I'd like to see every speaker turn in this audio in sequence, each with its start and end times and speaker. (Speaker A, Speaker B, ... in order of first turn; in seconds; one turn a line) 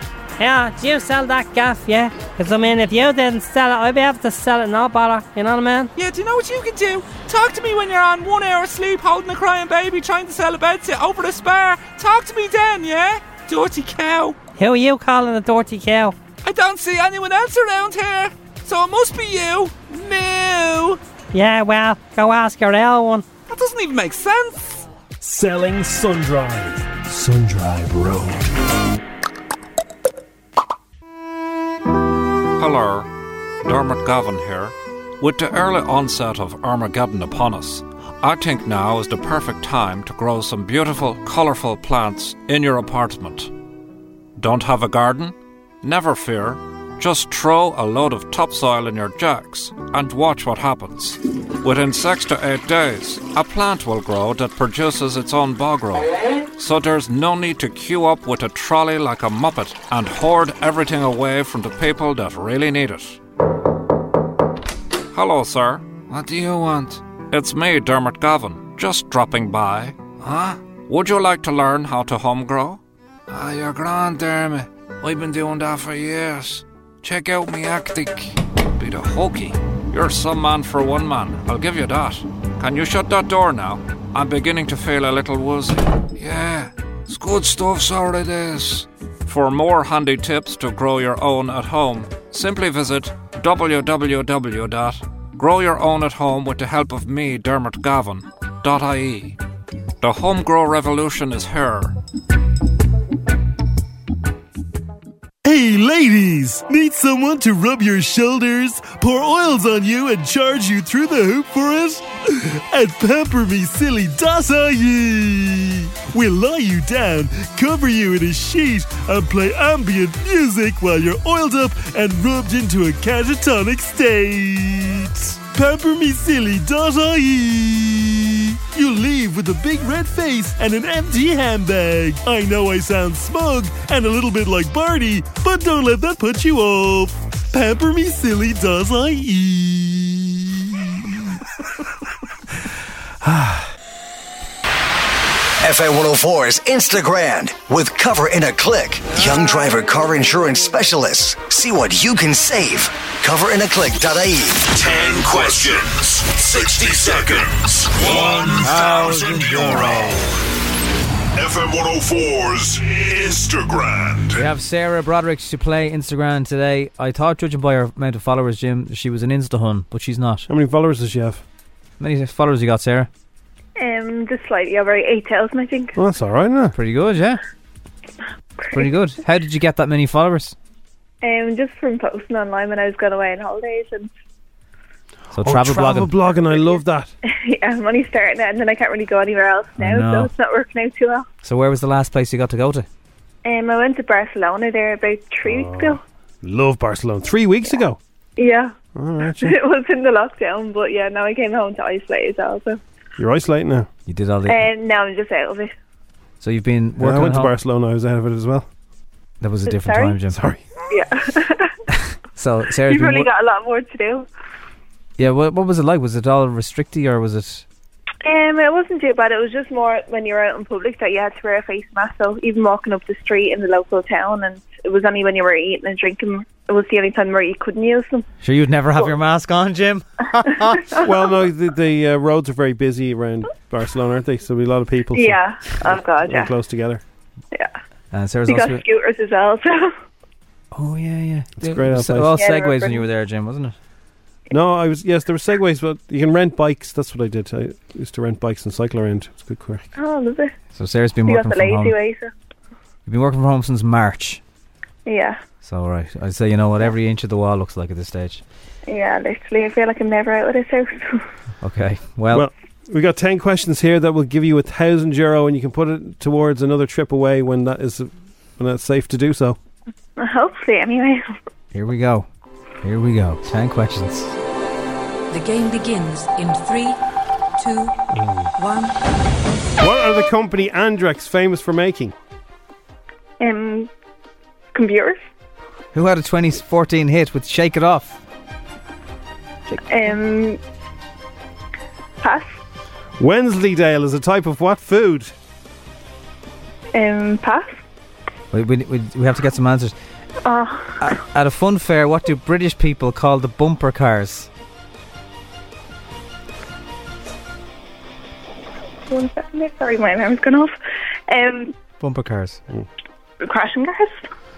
Speaker A: 0.4-5.9
Speaker B: 6.0-14.3
Speaker A: 14.6-16.2
Speaker B: 16.4-21.0
Speaker A: 21.3-23.2
Speaker B: 23.5-24.8
Speaker C: 25.2-28.4
Speaker D: 32.6-33.1
Speaker D: 33.6-43.5
Speaker D: 44.4-63.2
Speaker D: 65.1-99.4
Speaker D: 100.0-101.9
Speaker C: 105.4-141.0
Speaker E: 145.6-158.0
Speaker F: 154.8-160.2
Speaker G: 158.6-160.2
Speaker F: 161.3-164.4
Speaker G: 164.3-170.5
Speaker H: 170.5-171.4
Speaker G: 172.0-173.1
Speaker I: 173.8-175.9
Speaker H: 175.9-176.8
Speaker G: 176.7-177.4
Speaker G: 178.7-180.5
Speaker I: 181.2-184.1
Speaker G: 185.3-186.1
Speaker H: 185.4-187.1
Speaker I: 186.7-191.2
Speaker G: 189.8-190.3
Speaker G: 191.4-192.9
Speaker I: 193.4-196.0
Speaker H: 195.4-198.0
Speaker I: 198.4-198.7
Speaker H: 198.9-199.6
Speaker I: 199.3-202.8
Speaker H: 203.2-203.9
Speaker G: 204.1-204.7
Speaker I: 204.5-205.7
Speaker G: 206.4-207.5
Speaker H: 207.0-208.7
Speaker G: 209.4-210.4
Speaker I: 209.7-210.2
Speaker H: 210.3-210.6
Speaker I: 210.9-211.7
Speaker G: 211.9-213.3
Speaker I: 212.8-214.3
Speaker G: 215.2-217.6
Speaker I: 218.2-228.2
Speaker G: 228.4-230.9
Speaker H: 231.0-237.0
Speaker I: 235.1-236.5
Speaker G: 238.1-238.8
Speaker I: 238.5-239.9
Speaker G: 240.7-243.7
Speaker H: 241.6-242.3
Speaker I: 242.3-243.1
Speaker H: 244.5-249.8
Speaker I: 249.9-250.5
Speaker G: 250.7-252.0
Speaker I: 251.2-252.3
Speaker G: 253.1-254.4
Speaker I: 255.1-255.4
Speaker G: 255.6-258.4
Speaker I: 258.9-261.2
Speaker G: 261.6-262.5
Speaker H: 262.3-269.6
Speaker I: 270.2-271.3
Speaker G: 271.7-272.3
Speaker G: 272.8-274.3
Speaker J: 275.3-277.0
Speaker J: 277.6-278.0
Speaker H: 278.1-278.5
Speaker J: 278.6-278.9
Speaker H: 279.8-282.1
Speaker I: 283.4-283.9
Speaker I: 284.7-285.2
Speaker G: 285.9-288.2
Speaker I: 289.9-290.6
Speaker I: 292.2-292.5
Speaker H: 293.2-295.3
Speaker I: 296.9-297.8
Speaker G: 298.5-299.9
Speaker I: 300.4-301.1
Speaker G: 301.0-304.5
Speaker I: 309.1-310.7
Speaker I: 311.3-311.7
Speaker G: 312.0-312.6
Speaker I: 313.4-314.2